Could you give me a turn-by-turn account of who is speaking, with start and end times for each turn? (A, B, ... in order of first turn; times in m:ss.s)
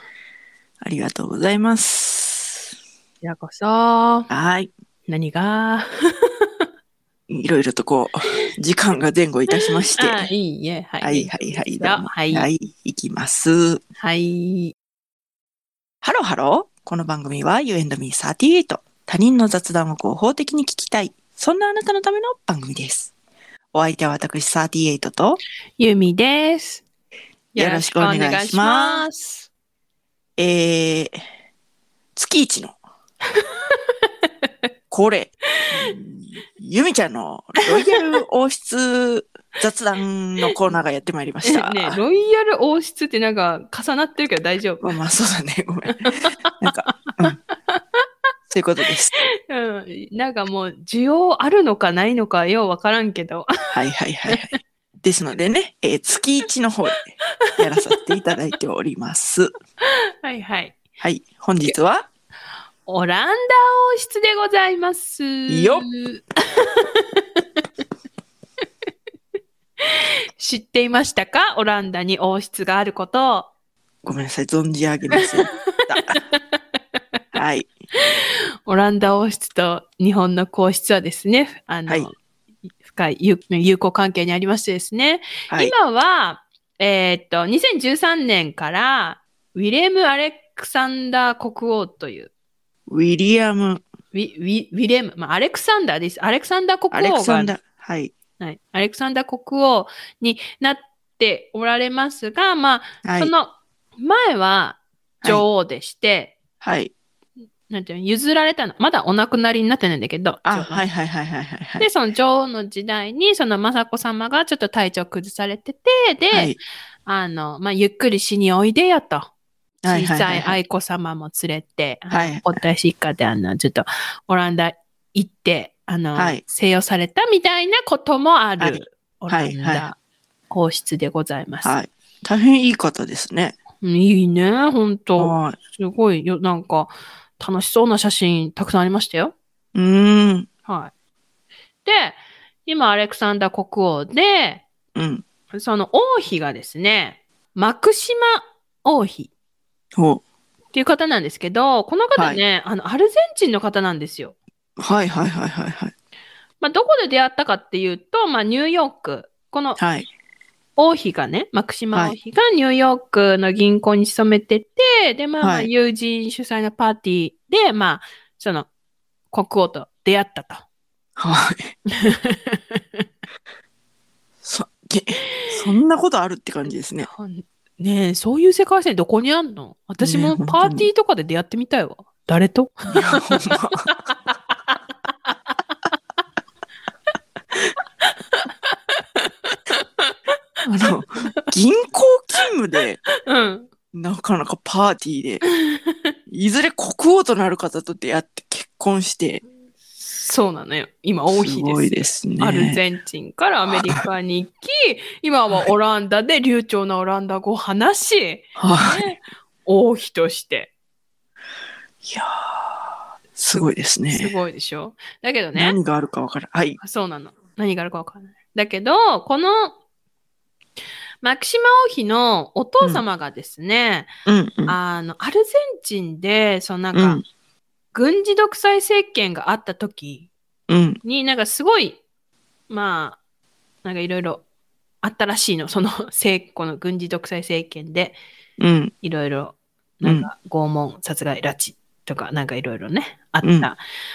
0:00.8-0:02.6 A
0:03.2-0:04.3 B
0:04.3-0:04.7 A
0:05.1-0:06.7 B
0:07.3-0:10.3 A
0:10.0-0:12.5 B
0:11.0-0:13.8 A
0:14.0-0:14.7 B
0:16.0-0:23.1 A
0:23.7-0:25.4 A
0:25.8-0:26.8 B
0:27.5-0:29.5 B
0:27.6-0:29.0 A
0:30.4-0:31.2 A
0:32.1-0:32.8 A
0:33.4-0:34.3 B
0:34.9-0:42.0 A
0:41.4-0:45.0 B
0:44.8-0:46.0 A
0:45.9-0:47.2 B
0:46.6-0:47.4 A
0:48.5-0:49.1 A
0:49.4-0:53.7 B
0:53.7-0:59.5 A
1:00.2-1:00.8 B
1:01.0-1:02.1 A
1:02.8-1:07.4 B
1:05.5-1:05.9 A
1:10.4-1:13.5 B
1:14.0-1:16.2 A
1:15.2-1:16.6 B
1:17.3-1:17.7 A
1:18.2-1:22.2 B
1:22.8-1:32.3 B
1:32.9-1:33.8 A
1:34.1-1:37.6 B
1:36.9-1:38.1 A
1:38.4-1:46.4 B
1:43.0-1:43.3 A
1:46.6-1:46.9 A
1:47.7-1:50.9 B
1:50.4-1:51.9 A
1:51.8-1:59.3 B
1:56.3-1:56.6 A
1:59.8-2:00.6 A
1:59.9-2:10.0 B
2:02.1-2:02.6 A
2:06.2-2:06.4 A
2:08.6-2:09.9 A
2:10.5-2:11.8 B
2:11.6-2:13.6 A
2:13.8-2:19.3 B
2:15.2-2:15.6 A
2:19.8-2:20.5 A
2:20.7-2:20.9 B
2:21.8-2:24.7 B
2:24.9-2:25.2 A
2:25.5-2:29.3 B
2:30.0-2:30.2 A
2:30.7-2:34.4 B
2:32.2-2:32.4 A
2:34.8-2:35.9 A
2:36.6-2:39.8 B
2:39.8-2:40.1 A
2:40.8-2:48.7 B
2:45.4-2:45.7 A
2:49.3-2:50.6 B
2:51.2-2:51.7 A
2:51.9-2:53.0 B
2:54.4-2:57.1 A
2:55.4-2:55.7 B
2:57.0-3:03.9 B
3:00.0-3:00.9 A
3:02.9-3:03.9 A
3:09.2-3:10.3 B
3:10.6-3:13.0 A
3:10.9-3:11.3 B
3:13.2-3:13.7 B
3:13.9-3:15.4 A
3:15.4-3:16.0 B
3:16.3-3:19.4 A
3:20.0-3:30.7 B
3:21.3-3:22.8 A
3:28.6-3:29.1 A
3:32.0-3:34.3 A
3:34.1-3:35.8 B
3:35.5-3:36.8 A
3:36.8-3:39.8 B
3:41.2-3:44.1 B
3:44.2-3:44.8 A
3:44.7-3:47.2 B
3:46.9-3:47.2 A
3:47.9-3:50.3 B
3:50.7-3:51.0 A
3:51.0-3:52.0 B
3:52.7-3:53.2 B
3:53.8-3:54.4 B
3:55.0-3:58.2 B
3:58.6-3:58.9 A
3:59.0-4:03.8 B
4:00.0-4:00.3 A
4:03.4-4:03.7 A